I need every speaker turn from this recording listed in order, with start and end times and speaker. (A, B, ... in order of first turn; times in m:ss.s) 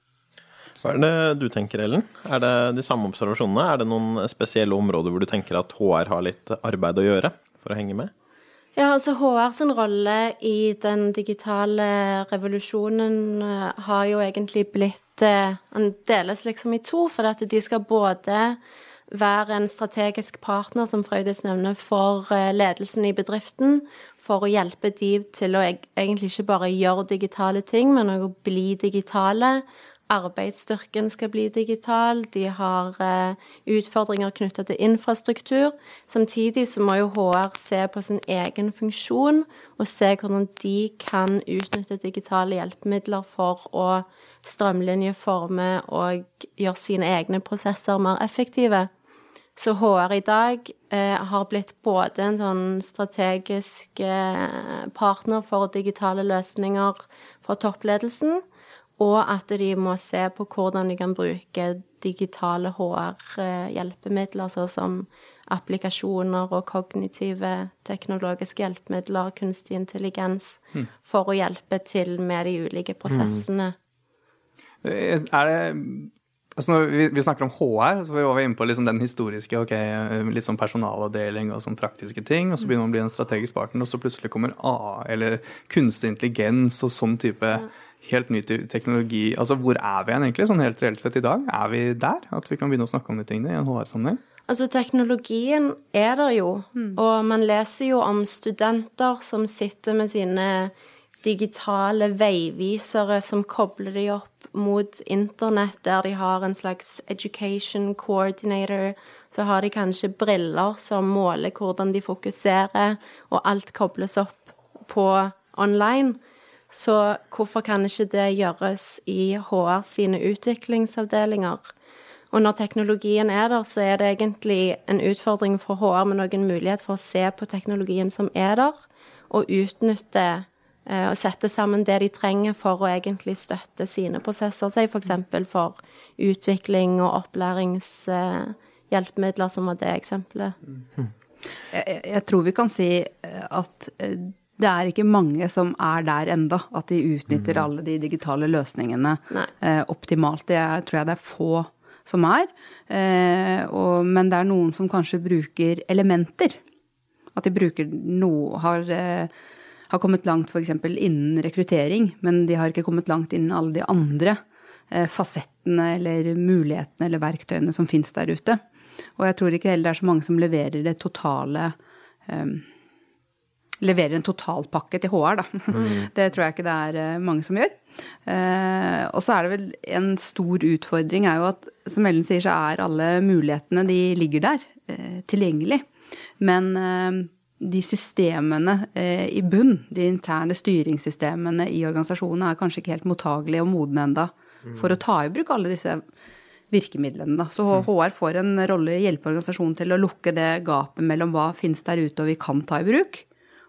0:00.8-0:08.1 A
0:08.8-0:48.9 B
0:49.6-0:58.4 B
0:59.0-1:13.8 B
1:13.1-1:13.4 A
1:14.8-1:34.2 C
1:34.5-1:40.7 B
1:41.2-1:56.2 B
1:56.7-2:01.7 B
2:02.3-2:08.8 B
2:09.3-2:20.6 B
2:21.7-2:36.6 D
2:37.4-2:39.3 D
2:39.9-2:44.4 D
2:44.9-2:48.6 D
2:49.2-2:51.8 D
2:52.3-2:52.7 D
2:53.8-3:05.9 D
2:55.7-2:56.1 A
3:06.4-3:16.0 D
3:16.7-3:23.3 D